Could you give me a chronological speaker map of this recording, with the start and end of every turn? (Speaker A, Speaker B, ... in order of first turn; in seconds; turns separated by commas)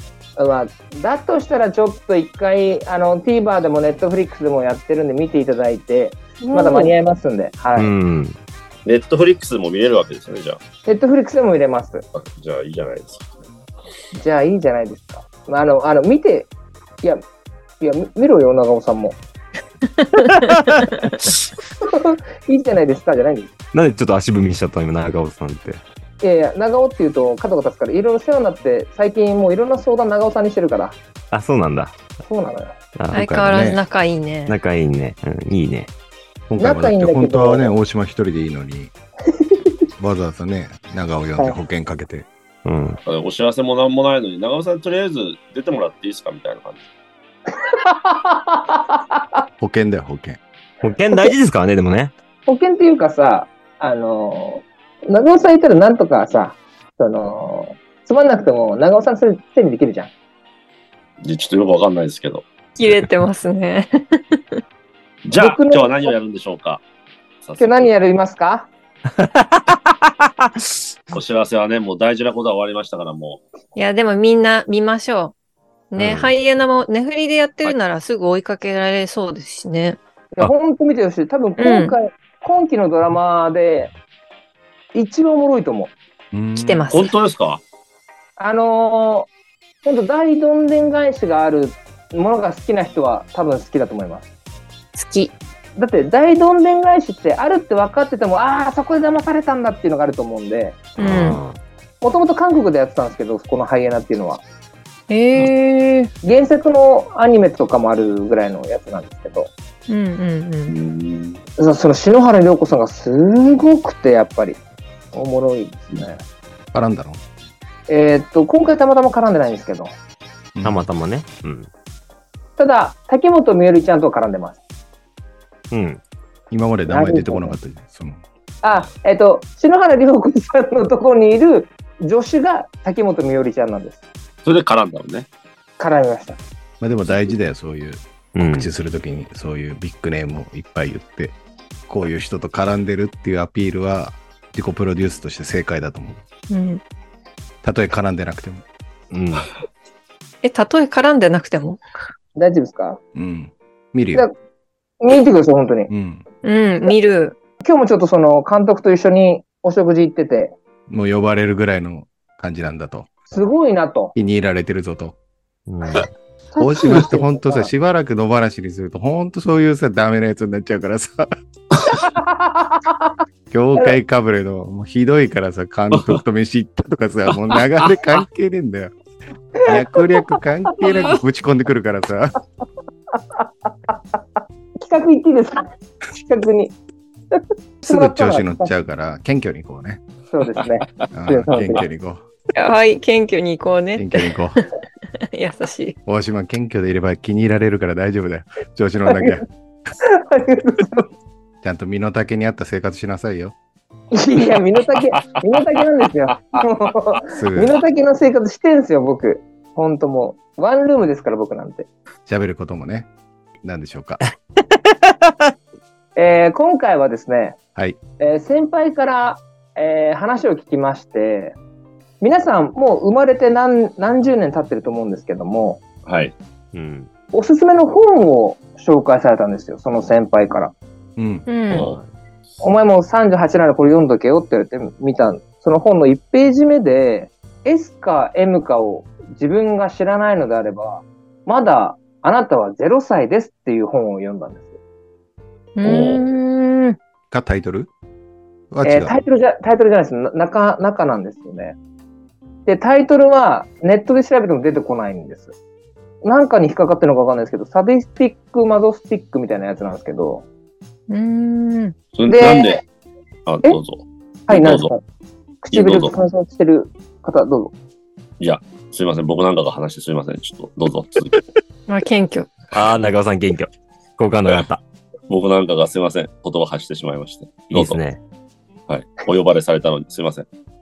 Speaker A: 0.4-7.9, Speaker B: 6.4-6.9, Speaker C: 7.8-8.4, Speaker D: 8.8-10.6, Speaker A: 10.9-12.0, Speaker D: 12.1-13.4, Speaker A: 14.1-16.5, Speaker A: 17.8-19.2, Speaker B: 20.0-21.1, Speaker C: 20.4-20.7, Speaker A: 21.8-23.5, Speaker C: 23.7-25.8, Speaker A: 26.2-31.0, Speaker C: 31.3-32.0, Speaker A: 32.3-32.7, Speaker C: 33.0-33.3, Speaker E: 33.1-33.8, Speaker B: 33.1-34.6, Speaker C: 34.5-35.9, Speaker E: 36.5-38.9, Speaker A: 36.6-37.7, Speaker E: 40.0-42.3, Speaker C: 42.6-43.0, Speaker D: 43.1-46.8, Speaker A: 47.6-49.0, Speaker E: 49.6-50.4, Speaker C: 50.8-52.1, Speaker A: 52.5-60.1, Speaker D: 61.2-62.5, Speaker B: 62.8-64.6, Speaker D: 65.2-66.8, Speaker A: 65.3-66.1, Speaker D: 67.4-67.9, Speaker A: 67.6-68.7, Speaker C: 69.2-71.1, Speaker D: 71.1-73.4, Speaker B: 73.8-75.3, Speaker B: 75.9-80.0, Speaker C: 76.0-76.3, Speaker A: 80.3-83.9, Speaker B: 81.6-82.0, Speaker A: 84.9-85.9, Speaker E: 86.3-86.9, Speaker B: 86.5-87.1, Speaker D: 86.9-87.6, Speaker A: 88.4-89.3, Speaker A: 89.8-94.3, Speaker B: 95.0-95.3, Speaker A: 95.8-100.8, Speaker C: 101.0-101.6, Speaker B: 101.0-101.4, Speaker A: 102.0-104.4, Speaker B: 105.1-106.1, Speaker A: 106.2-109.5, Speaker B: 109.9-110.8, Speaker D: 110.7-111.4, Speaker A: 111.6-114.6, Speaker A: 115.1-116.2, Speaker E: 116.7-117.2, Speaker A: 117.9-119.9, Speaker E: 120.5-120.8, Speaker C: 120.6-121.7, Speaker A: 122.6-124.6, Speaker C: 125.7-126.0, Speaker E: 126.5-128.2, Speaker A: 126.9-127.6, Speaker A: 128.6-134.0, Speaker D: 134.4-135.3, Speaker A: 135.8-136.4, Speaker E: 136.8-141.3, Speaker C: 138.3-138.7, Speaker E: 141.9-146.2, Speaker B: 146.5-146.8, Speaker E: 147.6-148.6, Speaker C: 149.1-149.5, Speaker B: 150.4-151.8, Speaker A: 152.4-153.0, Speaker E: 153.2-154.3, Speaker A: 155.0-155.9, Speaker E: 155.9-156.2, Speaker B: 156.4-157.4, Speaker A: 157.6-160.6, Speaker E: 160.9-163.1, Speaker A: 163.3-164.1, Speaker E: 164.2-165.2, Speaker C: 165.7-166.1, Speaker A: 166.5-167.7, Speaker E: 166.6-171.3, Speaker A: 172.0-173.1, Speaker E: 173.5-178.9, Speaker D: 175.9-176.2, Speaker D: 177.3-178.0, Speaker A: 179.6-179.9, Speaker E: 179.6-182.4, Speaker A: 180.7-181.1, Speaker A: 183.4-184.0, Speaker A: 184.8-186.8, Speaker A: 187.3-188.7, Speaker E: 187.8-190.0, Speaker A: 190.3-191.8, Speaker E: 191.1-192.2, Speaker B: 192.5-194.7, Speaker E: 194.0-194.6, Speaker B: 195.3-196.0, Speaker E: 196.1-199.5, Speaker A: 200.0-201.1, Speaker E: 201.6-203.6, Speaker A: 204.1-211.9, Speaker E: 207.3-207.8, Speaker E: 212.3-213.1, Speaker E: 213.6-214.2, Speaker A: 216.2-217.6, Speaker A: 218.2-221.6, Speaker A: 222.2-225.8, Speaker D: 226.1-226.3, Speaker C: 226.7-227.1, Speaker A: 227.3-230.7, Speaker E: 231.2-231.5, Speaker B: 231.5-231.9, Speaker D: 231.7-232.0, Speaker C: 231.7-232.1, Speaker A: 232.6-244.7, Speaker B: 245.8-247.0, Speaker D: 245.8-246.2, Speaker E: 247.3-247.9, Speaker E: 248.7-249.2, Speaker A: 248.8-251.8, Speaker A: 252.7-255.5, Speaker A: 256.2-260.4, Speaker B: 261.1-261.9, Speaker D: 262.1-262.8, Speaker A: 262.3-262.8, Speaker D: 263.5-264.9, Speaker A: 264.5-265.0, Speaker A: 265.6-267.7, Speaker D: 265.7-266.2, Speaker D: 268.4-271.4, Speaker B: 271.9-272.6, Speaker C: 272.7-274.8, Speaker D: 275.3-278.0, Speaker C: 277.7-278.2, Speaker D: 278.9-280.5